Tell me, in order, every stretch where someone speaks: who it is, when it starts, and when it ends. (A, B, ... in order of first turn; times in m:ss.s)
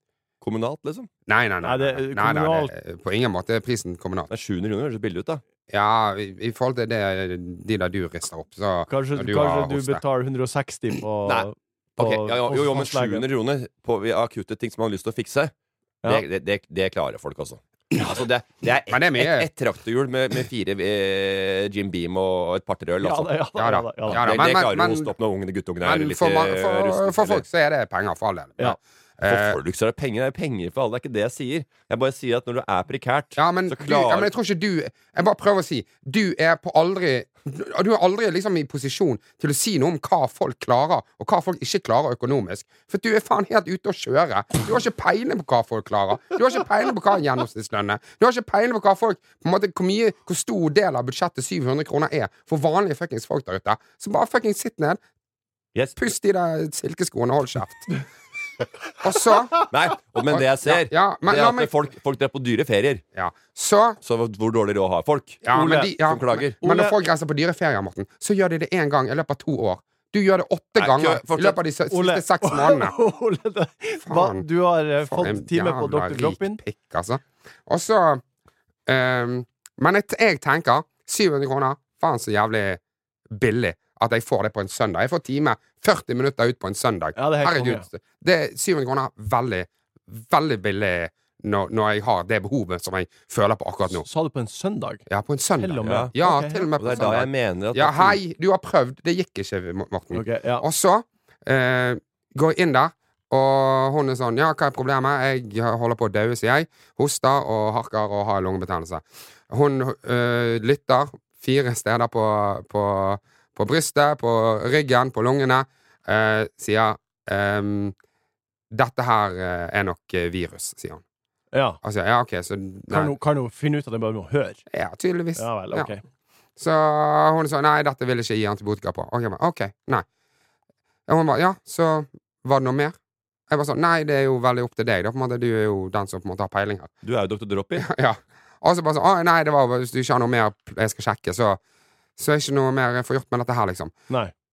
0:00.4-0:01.1 A
0:01.3-0:04.3 B
0:01.6-0:02.7 C
0:04.3-0:05.4 A
0:05.7-0:10.0 B
0:08.9-0:13.2 C
0:11.3-0:15.5 A
0:16.0-0:23.3 A
0:18.9-0:19.5 B
0:23.0-0:24.2 C
0:23.6-0:25.1 B
0:24.1-0:27.4 A
0:25.8-0:29.6 B
0:29.2-0:34.3 A
0:33.4-0:55.0 B
0:56.0-0:57.9 B
0:59.0-0:59.6 B
0:59.7-1:03.0 A
1:00.3-1:01.7 B
1:03.1-1:04.0 B
1:04.0-1:06.6 A
1:05.4-1:12.9 B
1:06.6-1:06.9 C
1:10.8-1:11.6 A
1:11.9-1:16.6 C
1:14.0-1:14.4 B
1:15.0-1:18.2 B
1:18.8-1:34.0 B
1:27.2-1:27.8 C
1:33.9-1:35.0 C
1:35.1-1:57.9 B
1:35.6-1:36.7 C
1:35.8-1:36.1 A
1:36.8-1:38.2 A
1:40.1-1:40.6 C
1:58.7-2:01.0 B
2:01.5-2:01.8 C
2:01.8-2:03.1 B
2:02.9-2:04.6 C
2:04.7-2:05.9 B
2:05.4-2:06.0 C
2:06.6-2:10.0 B
2:11.1-2:13.0 B
2:13.5-2:16.9 B
2:17.0-2:17.9 A
2:17.8-2:21.6 B
2:22.2-2:23.9 B